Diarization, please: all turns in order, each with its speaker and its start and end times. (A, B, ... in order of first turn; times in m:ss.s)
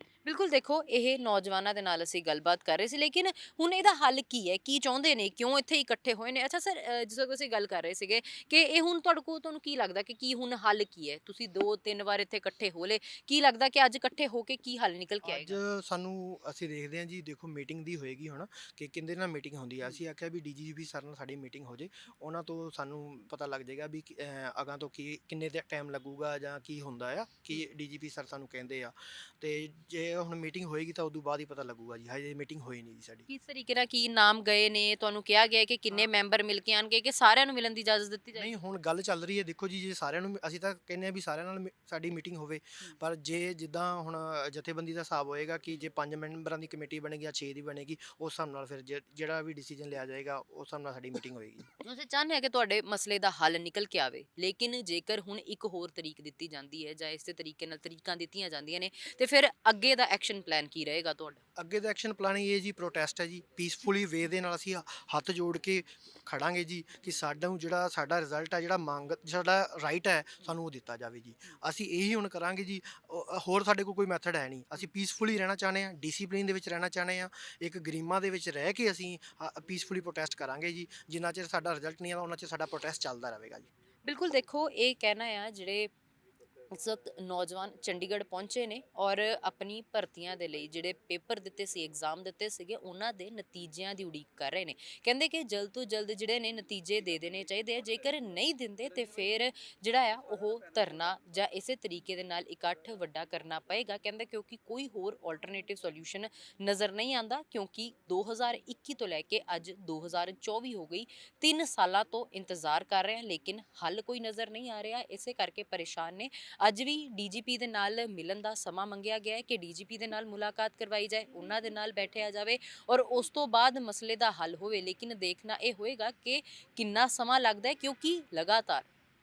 0:00.2-0:15.6 A
0:15.2-0:33.3 B
0:33.3-0:38.5 A
0:38.4-0:51.7 B
0:51.8-1:01.4 A
1:01.6-1:23.7 B
1:24.0-1:25.9 A
1:26.7-2:08.9 A